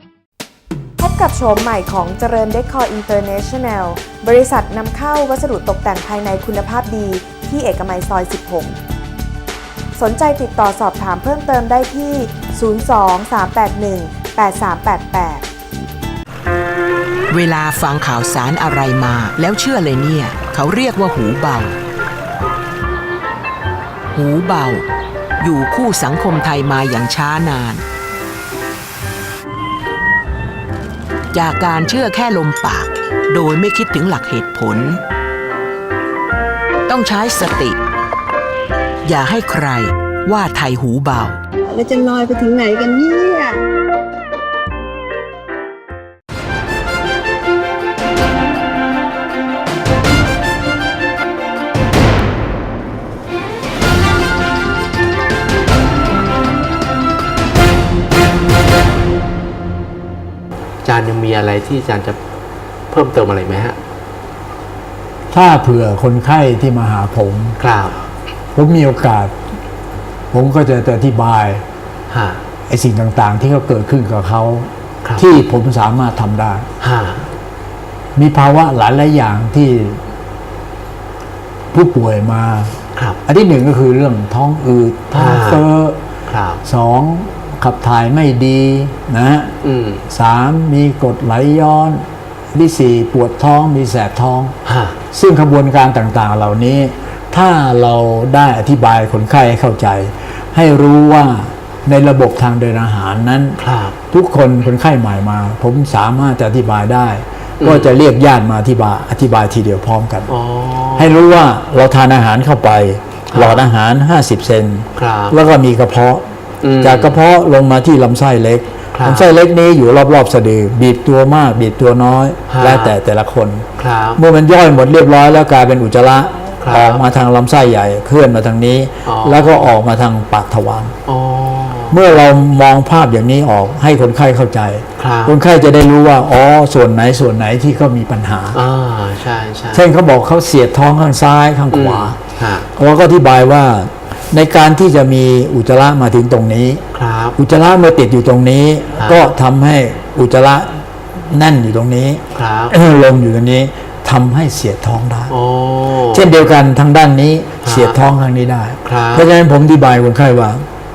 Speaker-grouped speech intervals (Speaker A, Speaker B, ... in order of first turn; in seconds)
Speaker A: 1.0-8.8, 9.9-15.4
Speaker B: 17.3-21.8, 24.1-24.8, 25.4-27.8, 31.3-35.0, 36.9-37.8, 39.0-41.4
Speaker C: 41.7-43.6
Speaker D: 60.8-62.2, 62.9-63.8, 67.6-68.0, 72.1-72.4, 76.8-77.3, 85.1-85.6, 86.3-86.6, 89.6-90.0, 94.6-95.0, 103.6-104.0, 107.6-107.9, 110.3-111.2, 113.3-113.6, 115.0-115.4, 116.6-117.2, 118.9-119.3, 122.5-123.0, 123.8-124.2, 126.6-127.0, 129.0-129.6, 131.1-132.0, 135.0-135.4, 138.5-139.8, 141.7-142.7, 146.9-147.4, 152.3-152.7, 155.3-156.3, 157.6-158.0, 158.8-159.3
Speaker E: 65.3-67.6, 68.5-69.3, 70.3-71.6, 72.7-76.7, 78.2-80.0, 81.7-86.0, 86.6-89.5, 90.1-94.5, 95.1-103.6, 104.1-110.3, 111.0-116.2, 116.8-130.9, 131.9-138.6, 139.7-142.2, 142.8-146.8, 147.4-155.3, 156.1-160.6